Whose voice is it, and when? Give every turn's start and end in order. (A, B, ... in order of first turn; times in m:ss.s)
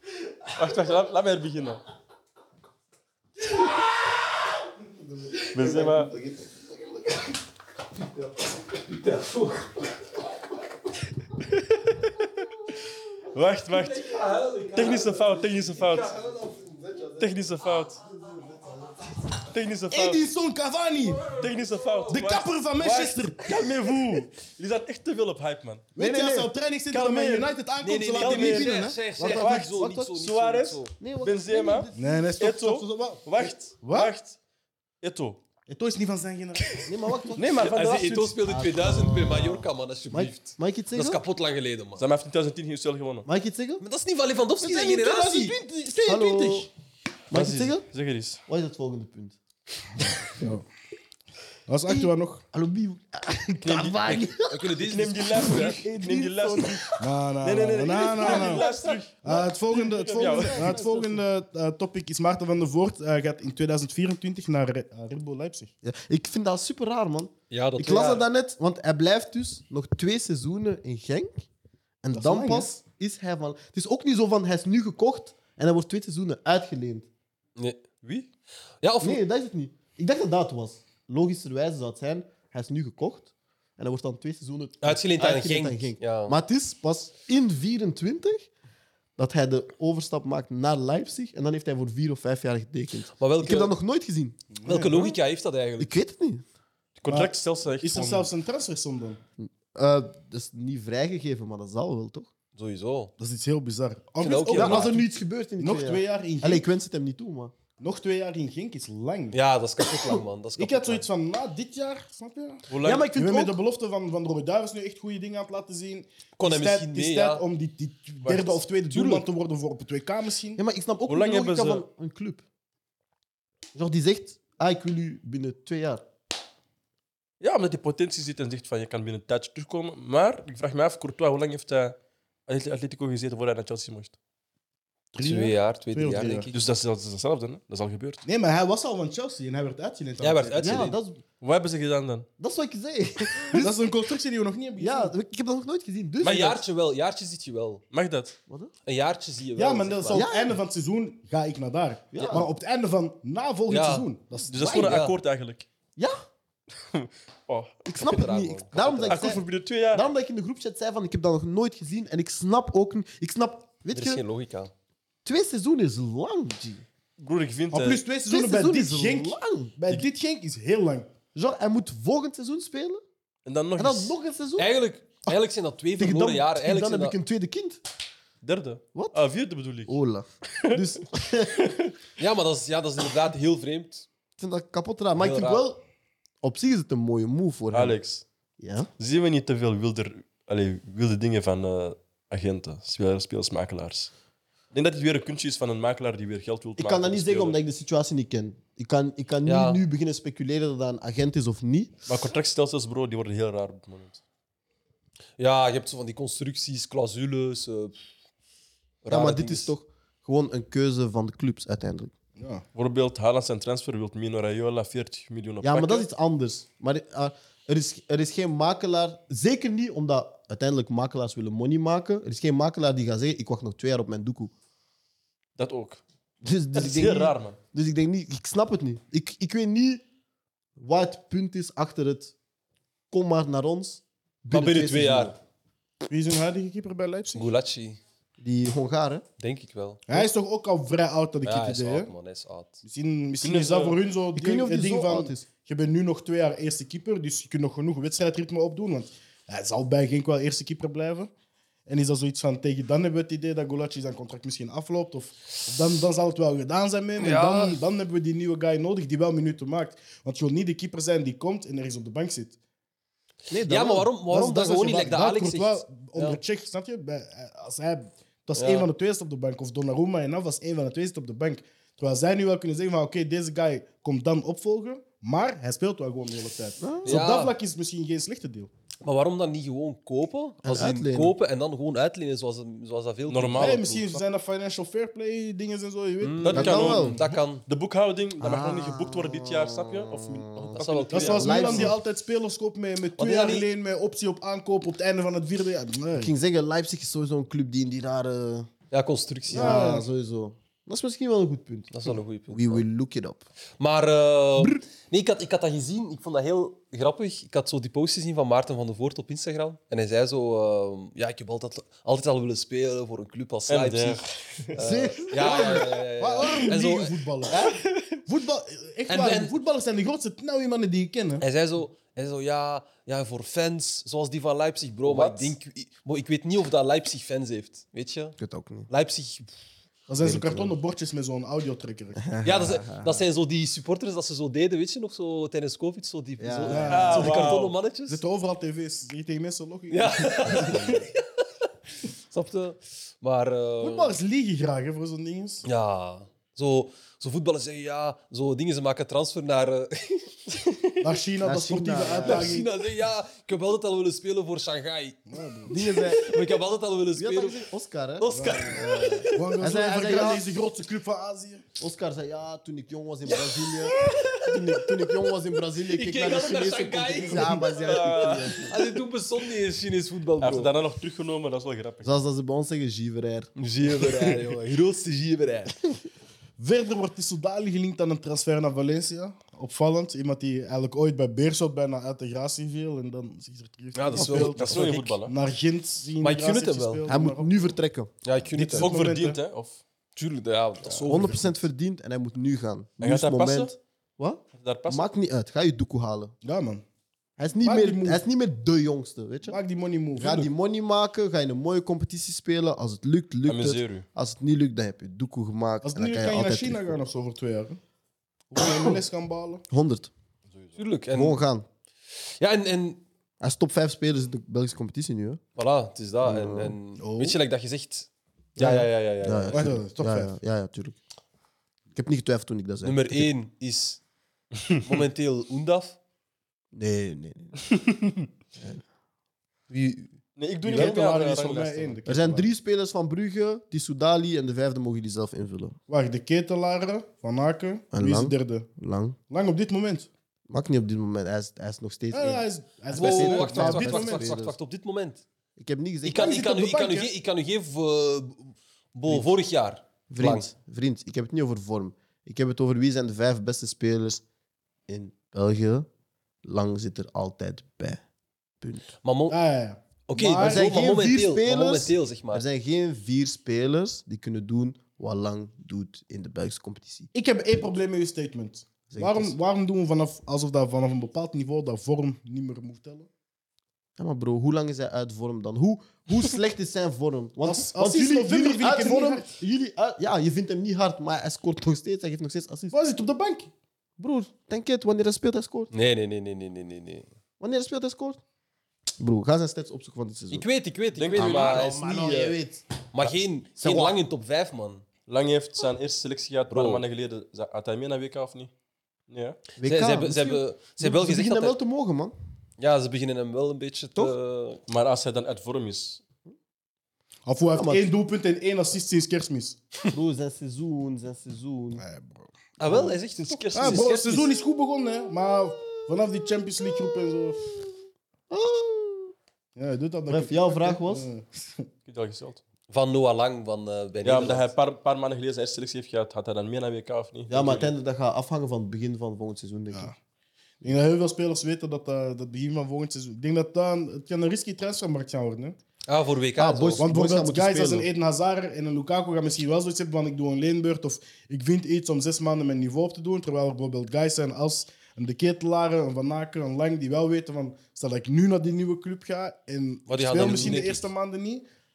0:00.5-0:01.8 A
0:05.4-0:06.5 B
0:05.5-0:06.1 A
0:08.8-0:09.8 C
0:11.5-0:12.3 A
0:13.3-0:16.2 A
0:13.7-0:16.6 C
0:17.2-0:18.0 A
0:19.4-0:20.2 A
0:19.9-0:21.3 D
0:21.3-0:25.9 A
0:22.1-0:23.6 D
0:25.9-0:29.0 D
0:26.0-0:26.5 B
0:26.9-0:27.5 A
0:27.8-0:30.9 C
0:28.1-0:34.4 A
0:29.2-0:30.2 B
0:31.0-0:32.3 B
0:31.9-0:34.1 D
0:35.0-0:35.4 A
0:35.7-0:36.9 D
0:36.8-0:37.7 B
0:37.4-0:38.4 A
0:37.5-0:42.0 C
0:38.4-0:41.2 B
0:42.0-0:43.3 A
0:43.2-0:43.8 B
0:43.8-0:45.6 C
0:44.6-0:46.7 D
0:46.0-0:46.7 B
0:47.3-0:47.8 B
0:47.3-0:48.4 A
0:48.5-0:49.4 B
0:50.2-0:50.6 D
0:51.7-0:52.4 D
0:51.9-0:54.7 B
0:53.6-0:54.2 A
0:54.0-0:55.9 C
0:54.8-1:00.8 A
0:55.3-0:56.8 B
0:57.0-0:58.7 D
0:58.2-0:59.0 B
0:59.2-1:05.7 D
1:00.1-1:01.2 B
1:05.8-1:11.4 B
1:07.5-1:08.2 C
1:12.0-1:17.1 B
1:12.1-1:12.7 D
1:17.6-1:17.8 C
1:18.0-1:18.3 A
1:18.8-1:19.2 C
1:19.0-1:28.5 B
1:24.8-1:26.4 C
1:29.2-1:34.4 B
1:33.2-1:33.7 C
1:34.5-1:35.2 D
1:34.6-1:35.9 C
1:35.8-1:36.4 B
1:37.0-1:38.3 A
1:37.1-1:39.2 D
1:39.4-1:42.3 B
1:42.6-1:43.1 C
1:43.2-1:46.6 D
1:44.2-1:45.0 C
1:44.5-1:47.5 B
1:47.8-1:49.4 D
1:49.3-1:51.0 C
1:50.6-2:00.6 D
1:52.7-1:53.1 A
1:52.8-1:53.6 B
1:56.4-1:57.4 C
1:58.2-1:58.5 A
1:58.9-1:59.2 C
2:00.6-2:02.4 B
2:01.1-2:01.8 A
2:03.7-2:06.0 B
2:07.4-2:14.2 A
2:15.1-2:16.5 D
2:15.2-2:16.6 C
2:16.5-2:18.2 A
2:18.2-2:20.9 D
2:20.2-2:21.0 C
2:20.6-2:21.2 B
2:21.4-2:22.3 A
2:22.4-2:23.7 B
2:23.5-2:25.1 D
2:24.8-2:26.6 B
2:26.2-2:27.8 C
2:27.9-2:28.4 A
2:28.8-2:30.3 C
2:29.6-2:34.9 D
2:30.1-2:30.5 B
2:32.1-2:32.5 B
2:33.7-2:34.1 C
2:34.5-2:35.6 A
2:34.5-2:35.0 B
2:34.6-2:35.1 C
2:36.0-2:36.2 B
2:36.9-2:38.4 A
2:37.9-2:44.2 B
2:38.0-2:39.3 C
2:39.0-2:40.0 A
2:43.9-2:44.7 C
2:45.2-2:46.8 B
2:47.2-2:48.0 A
2:47.7-2:51.1 D
2:48.3-2:49.8 B
2:51.3-2:53.0 B
2:53.4-2:54.1 A
2:53.8-2:54.7 B
2:54.6-2:57.2 C
2:56.0-2:57.8 B
2:58.4-3:00.0 A
2:58.9-2:59.2 B
2:59.8-3:01.7 B
3:00.5-3:00.8 A
3:01.6-3:01.9 A
3:02.2-3:04.1 C
3:04.4-3:05.8 B
3:05.2-3:05.6 C
3:06.4-3:08.0 B
3:07.7-3:08.2 A
3:08.6-3:08.9 B
3:09.0-3:14.1 A
3:14.7-3:17.6 A
3:16.8-3:21.9 B
3:19.4-3:19.8 C
3:22.1-3:24.2 A
3:25.4-3:27.9 C
3:29.0-3:29.7 C
3:29.1-3:32.1 B
3:32.4-3:32.6 D
3:32.7-3:36.1 A
3:35.6-3:44.5 B
3:45.6-3:46.0 A
3:46.4-3:50.0 B
3:46.7-3:47.6 A
3:50.8-3:52.3 B
3:53.1-3:55.4 B
3:54.5-3:55.3 C
3:56.1-3:57.5 D
3:57.3-3:58.0 C
3:58.4-3:59.2 B
3:59.4-4:00.3 C
4:00.1-4:02.1 D
4:01.4-4:02.8 C
4:02.8-4:11.3 D
4:03.4-4:04.0 A
4:04.3-4:05.4 B
4:11.9-4:22.6 D
4:17.2-4:17.8 C
4:23.5-4:24.1 B
4:23.6-4:26.4 C
4:24.3-4:38.7 D
4:28.6-4:28.9 C
4:36.8-4:37.2 B
4:37.0-4:37.5 C
4:39.0-4:44.2 C
4:40.6-4:41.3 B
4:43.3-4:43.8 A
4:43.6-4:47.0 D
4:46.2-4:47.6 C
4:46.4-4:51.7 A
4:46.5-4:47.2 B
4:48.4-4:50.8 B
4:50.7-4:51.9 C
4:51.1-4:56.3 D
4:51.3-4:52.0 B
4:53.2-4:53.7 C
4:56.1-4:58.7 B
4:58.9-5:00.0 C
4:59.5-5:03.4 B
4:59.5-5:00.0 D
5:01.9-5:02.8 C
5:03.8-5:17.8 C
5:13.7-5:14.7 A
5:14.8-5:15.9 B
5:15.1-5:17.7 D
5:18.2-5:21.4 D
5:19.1-5:19.5 C
5:21.4-5:28.4 C
5:25.1-5:25.5 B
5:28.4-5:28.9 B
5:28.9-5:29.5 C
5:30.1-5:32.2 D
5:30.2-5:30.7 B
5:32.2-5:33.2 B
5:32.4-5:38.2 C
5:36.4-5:37.2 B
5:36.6-5:41.0 D
5:36.9-5:37.8 A
5:39.9-5:41.2 C
5:40.6-5:40.9 B
5:42.3-5:44.1 C
5:43.8-5:45.7 D
5:45.6-5:50.8 C
5:51.0-5:52.7 D
5:51.4-5:52.6 B
5:52.2-5:57.6 C
5:55.3-5:55.8 D
5:55.7-5:56.3 B
5:57.1-6:00.6 B
5:58.2-5:59.5 C
5:58.3-5:58.8 D
5:59.3-6:01.6 D
6:01.8-6:08.7 B
6:03.3-6:10.7 C
6:07.7-6:09.0 A
6:10.4-6:12.1 A
6:12.0-6:13.5 B
6:13.6-6:15.8 C
6:16.6-6:27.8 D
6:23.9-6:25.2 C
6:24.2-6:25.3 A
6:26.2-6:27.1 C
6:27.1-6:28.1 B
6:28.2-6:28.9 C
6:28.5-6:29.4 D
6:28.8-6:29.8 A
6:30.2-6:31.5 C
6:30.9-6:31.4 D
6:31.0-6:36.3 B
6:33.0-6:33.7 A
6:34.6-6:35.1 A
6:36.4-6:36.8 D
6:37.4-6:39.6 B
6:37.6-6:38.2 D
6:39.5-6:40.5 D
6:40.2-6:47.0 B
6:43.4-6:44.0 A
6:45.8-6:47.8 D
6:48.5-6:49.6 D
6:49.7-6:50.1 B
6:50.8-6:51.4 C
6:51.1-6:51.6 B
6:52.4-6:53.0 C
6:53.4-6:55.4 B
6:55.6-6:59.7 C
6:56.2-6:56.7 B
6:57.0-6:57.4 D
6:58.6-7:01.0 B
6:59.5-7:00.3 D
7:01.9-7:03.3 B
7:02.8-7:04.0 C
7:04.8-7:06.0 C
7:06.7-7:07.6 B
7:09.7-7:10.0 C
7:10.4-7:12.0 A
7:10.6-7:12.5 D
7:12.0-7:15.8 B
7:15.9-7:18.7 D
7:17.9-7:19.2 B
7:19.3-7:20.1 D
7:20.5-7:24.6 B
7:22.1-7:24.3 D
7:22.9-7:25.2 C
7:25.6-7:26.5 B
7:26.0-7:30.5 C
7:26.1-7:27.1 D
7:30.1-7:34.2 B
7:34.9-7:35.9 B
7:36.4-7:38.0 B
7:38.6-7:38.9 B
7:39.0-7:39.4 C
7:39.3-7:40.8 D
7:40.1-7:42.4 C
7:40.4-7:47.1 B
7:47.1-7:53.1 D
7:48.9-7:49.3 B
7:54.0-8:02.7 B
7:57.4-7:59.3 D
8:02.7-8:03.5 D
8:04.0-8:05.7 B
8:05.7-8:07.1 C
8:07.4-8:08.2 B
8:09.0-8:10.5 B
8:10.3-8:12.4 C
8:10.9-8:11.7 A
8:11.1-8:12.6 B
8:12.9-8:14.8 C
8:13.6-8:14.0 B
8:15.1-8:18.5 A
8:16.5-8:16.8 C
8:19.1-8:19.4 A
8:19.6-8:22.1 B
8:19.6-8:21.6 C
8:22.6-8:24.6 C
8:24.7-8:26.0 A
8:27.2-8:29.6 D
8:27.5-8:27.8 B
8:29.9-8:31.8 B
8:31.7-8:32.3 D
8:32.6-8:34.3 C
8:32.6-8:34.2 A
8:33.5-8:37.5 D
8:36.7-8:37.7 B
8:38.3-8:39.1 B
8:39.6-8:41.6 D
8:40.1-8:41.1 B
8:41.8-8:42.4 A
8:42.7-8:44.5 C
8:44.0-8:47.7 A
8:47.3-8:49.9 B
8:50.6-8:55.6 D
8:55.9-8:56.8 C
8:56.4-8:57.9 B
8:56.8-9:11.4 D
9:09.9-9:10.9 C